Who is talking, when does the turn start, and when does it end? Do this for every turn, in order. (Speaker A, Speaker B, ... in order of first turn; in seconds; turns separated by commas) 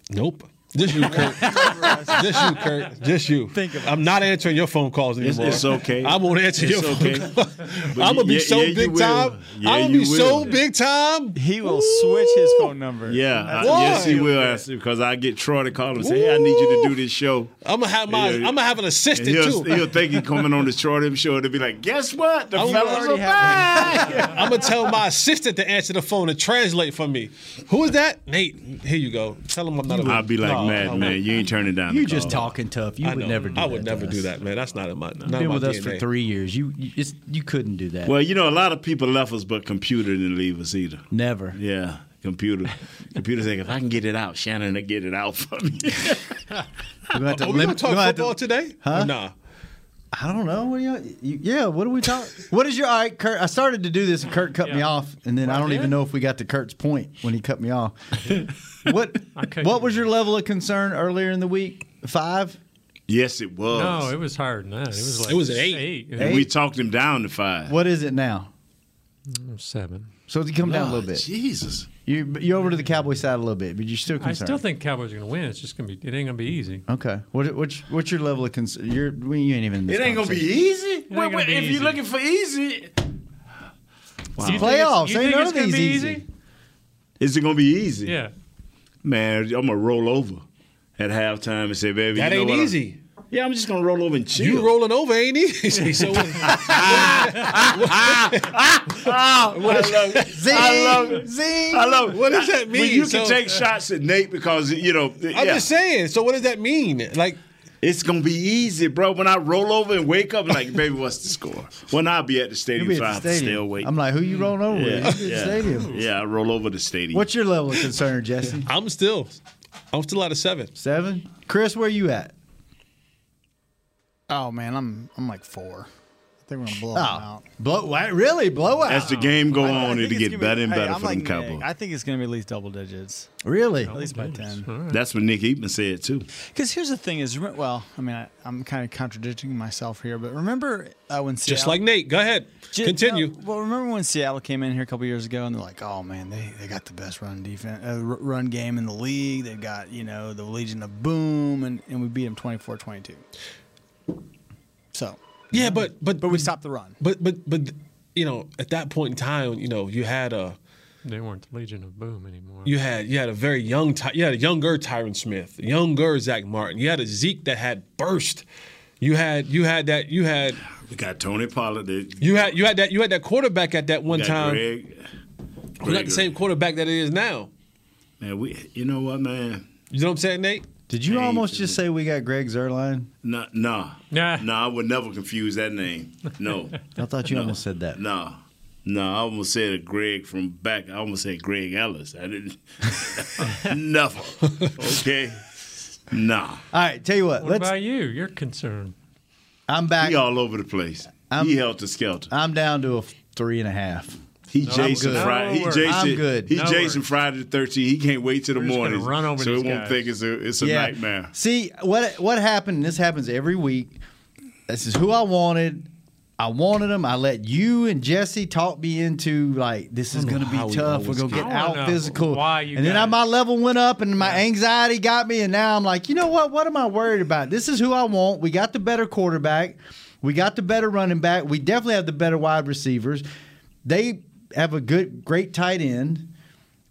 Speaker A: 0.1-12.7, Speaker B: 0.9-2.5, Speaker B: 3.5-4.3, Speaker C: 5.2-7.3, Speaker C: 7.9-10.6, Speaker B: 11.3-14.6, Speaker C: 13.1-17.5, Speaker A: 13.5-14.3, Speaker A: 16.0-17.0, Speaker A: 17.6-20.0, Speaker C: 18.1-18.6, Speaker C: 19.1-24.7, Speaker A: 22.5-31.4, Speaker D: 22.6-24.4, Speaker C: 29.9-32.4, Speaker D: 31.9-34.3, Speaker A: 33.0-36.0, Speaker D: 35.2-38.1, Speaker C: 38.0-46.3, Speaker D: 41.1-41.6, Speaker D: 47.1-49.1, Speaker A: 47.3-49.3, Speaker D: 50.1-62.6, Speaker E: 54.6-54.9, Speaker E: 55.4-56.0, Speaker E: 59.4-59.9, Speaker C: 63.1-64.1, Speaker E: 63.7-66.4, Speaker A: 65.2-65.9, Speaker C: 66.2-67.8, Speaker D: 66.2-66.5, Speaker D: 67.7-68.5, Speaker E: 69.3-70.1, Speaker D: 70.3-71.3, Speaker C: 70.6-71.9, Speaker D: 72.0-74.6, Speaker E: 74.2-76.8, Speaker D: 76.9-80.5, Speaker C: 79.9-83.0, Speaker E: 81.1-82.0, Speaker C: 84.4-84.8, Speaker D: 84.4-86.2, Speaker E: 84.4-86.2, Speaker C: 87.2-88.2, Speaker E: 88.0-88.3, Speaker C: 89.0-90.4, Speaker C: 91.0-92.8, Speaker A: 92.2-93.0, Speaker C: 93.3-94.7, Speaker A: 94.3-98.6, Speaker C: 96.2-105.7, Speaker A: 99.5-100.8, Speaker D: 100.3-102.0, Speaker A: 102.1-103.4, Speaker A: 105.3-107.4, Speaker C: 107.8-113.9, Speaker D: 112.8-116.0, Speaker C: 114.7-117.2, Speaker E: 115.7-116.0, Speaker D: 117.1-118.7, Speaker A: 118.7-119.4, Speaker A: 119.9-120.7, Speaker D: 120.8-122.3, Speaker B: 124.3-125.9, Speaker B: 126.4-127.5, Speaker D: 126.9-129.2, Speaker C: 128.9-131.7, Speaker E: 129.0-129.3, Speaker B: 129.5-133.3, Speaker D: 133.4-134.0, Speaker E: 133.8-135.0, Speaker B: 133.9-134.7, Speaker C: 134.9-136.3, Speaker B: 136.5-141.8, Speaker A: 141.5-143.4, Speaker B: 142.7-153.2, Speaker B: 154.9-157.0, Speaker A: 155.5-160.6, Speaker E: 161.1-162.7, Speaker A: 162.7-168.4, Speaker A: 169.0-170.6, Speaker C: 170.8-172.6, Speaker A: 172.2-174.7, Speaker C: 174.1-175.0, Speaker A: 175.8-177.5, Speaker C: 175.8-176.3, Speaker C: 178.2-179.7, Speaker A: 179.9-180.7, Speaker D: 180.9-183.1, Speaker C: 181.1-181.8, Speaker C: 183.2-196.6, Speaker E: 184.1-184.4, Speaker D: 186.9-188.0, Speaker D: 196.7-197.7, Speaker E: 197.4-198.9, Speaker D: 199.7-200.2, Speaker C: 200.0-202.3, Speaker D: 201.3-201.6, Speaker D: 202.3-206.6, Speaker C: 204.5-211.3, Speaker E: 204.7-207.1, Speaker E: 208.6-210.0, Speaker D: 210.6-214.0, Speaker D: 214.7-233.2, Speaker A: 220.1-221.5, Speaker E: 221.3-223.2, Speaker D: 233.8-236.3